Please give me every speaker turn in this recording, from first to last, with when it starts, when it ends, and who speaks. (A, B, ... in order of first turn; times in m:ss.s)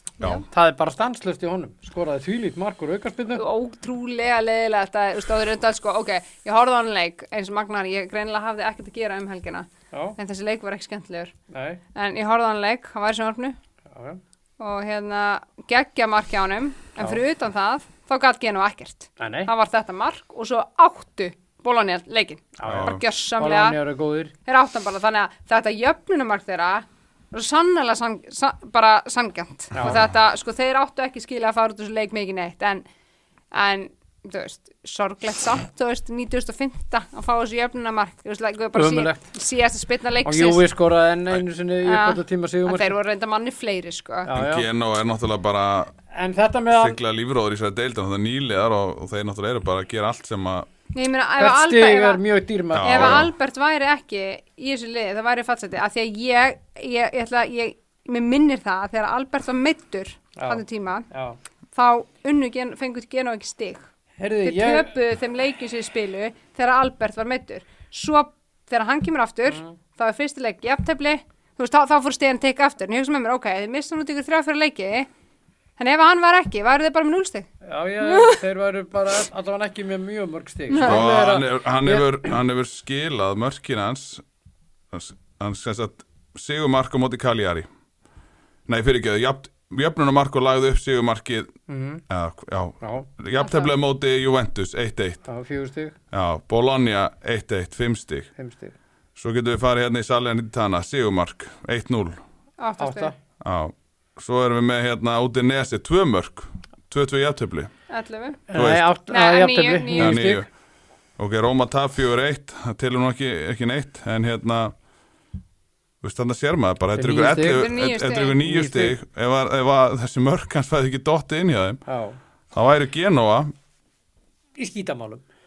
0:00.4-0:03.4 A
0:03.3-0:11.3 B
0:11.5-0:11.8 A
0:11.9-0:13.6 B
0:13.9-0:14.2 A
0:14.6-0:23.8 B
0:19.2-0:19.5 A
0:22.6-0:24.3 A
0:22.7-0:23.0 C
0:24.4-0:32.8 B
0:29.7-0:30.0 A
0:33.5-0:40.7 B
0:38.7-0:39.2 A
0:40.2-0:42.9 A
0:41.8-0:44.3 B
0:44.2-0:44.6 A
0:44.3-0:45.9 C
0:46.1-0:47.0 A
0:46.7-0:50.7 C
0:50.9-0:52.2 B
0:51.4-0:53.2 A
0:52.7-0:53.3 C
0:52.8-1:01.0 B
1:00.4-1:01.4 A
1:01.7-1:03.9 B
1:04.2-1:04.9 A
1:04.4-1:15.1 B
1:15.8-1:17.5 B
1:17.6-1:22.1 A
1:18.0-1:18.4 B
1:20.7-1:21.1 B
1:20.8-1:24.2 C
1:24.9-1:27.7 C
1:28.7-1:31.5 C
1:31.7-1:32.0 A
1:32.1-1:35.3 C
1:32.8-1:33.1 A
1:33.4-1:33.7 B
1:35.3-1:36.0 A
1:36.1-1:38.3 C
1:38.4-1:38.7 A
1:39.2-1:42.2 C
1:42.6-1:43.1 B
1:42.8-1:43.1 A
1:43.4-1:47.7 C
1:47.9-1:48.4 B
1:48.5-1:50.5 A
1:48.5-1:48.9 C
1:49.1-1:50.2 B
1:49.9-1:50.5 C
1:51.2-1:54.7 C
1:56.0-2:01.8 C
1:57.0-1:57.6 A
1:57.5-1:58.4 B
1:58.4-1:58.9 A
2:01.9-2:02.2 A
2:02.5-2:03.5 C
2:04.6-2:05.2 A